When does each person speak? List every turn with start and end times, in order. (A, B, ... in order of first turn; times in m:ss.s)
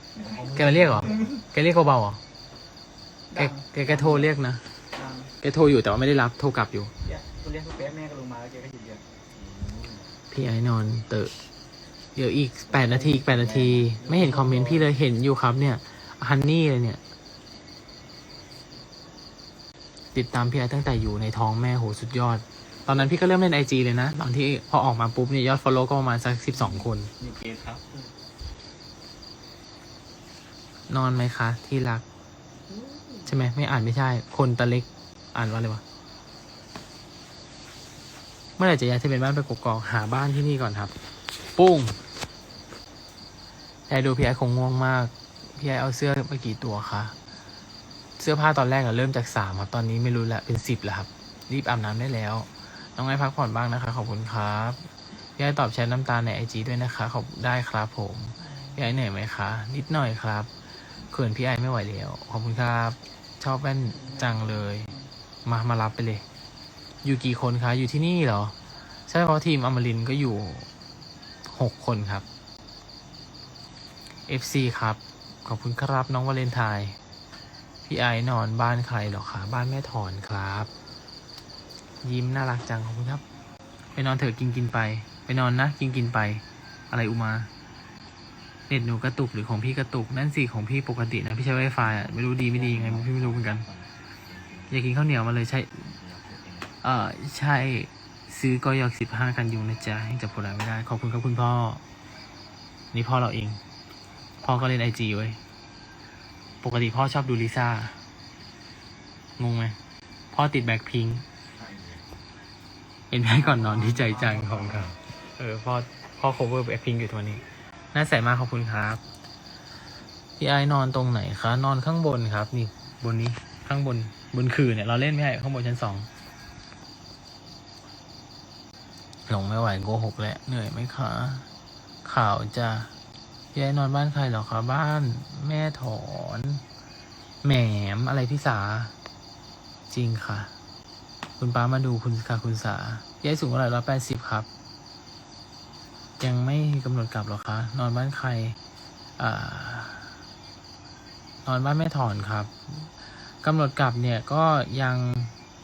0:00.1-0:01.3 A
0:00.2-0:01.3 B
0:00.5-0:02.2 C
0:03.3-0:04.3 A
0:03.3-0:04.6 C
0:04.9-0:05.3 A
0:05.4-0:06.9 C
0:07.0-0:09.0 A
0:09.3-0:10.1 B
0:10.3-0:11.3 C
0:12.2-0:17.0 C
0:12.7-0:14.8 B
0:12.8-0:14.8 A
0:20.1-0:27.1 C
0:26.6-0:28.1 B
0:30.9-0:32.0 C
0:32.7-0:33.3 A
0:33.2-0:35.8 C
0:38.6-0:40.9 C
0:41.5-0:42.0 C
0:43.9-0:47.1 C
0:48.2-0:54.8 C
0:55.4-1:00.5 C
0:58.4-0:58.8 A
1:01.1-1:04.9 C
1:03.9-1:05.0 A
1:05.4-1:06.2 C
1:07.0-1:08.5 C
1:09.1-1:10.7 C
1:11.4-1:12.2 C
1:14.3-1:17.0 C
1:17.8-1:20.7 C
1:22.0-1:23.2 C
1:23.9-1:27.5 C
1:28.7-1:33.6 C
1:31.8-1:34.9 B
1:34.7-1:35.8 C
1:35.8-1:36.7 B
1:36.8-1:41.8 C
1:42.9-1:43.6 C
1:44.4-1:45.4 C
1:46.6-1:48.0 C
1:49.4-1:49.8 C
1:50.3-1:51.2 C
1:51.5-1:52.1 B
1:53.1-1:57.4 C
1:53.4-1:55.0 B
1:57.9-1:59.0 C
2:00.4-2:06.1 C
2:09.3-2:11.5 C
2:12.0-2:12.9 C
2:13.5-2:16.6 C
2:17.4-2:18.9 C
2:19.9-2:20.5 C
2:21.4-2:24.5 C
2:26.2-2:28.6 C
2:29.2-2:30.1 C
2:31.4-2:32.9 C
2:33.4-2:35.3 C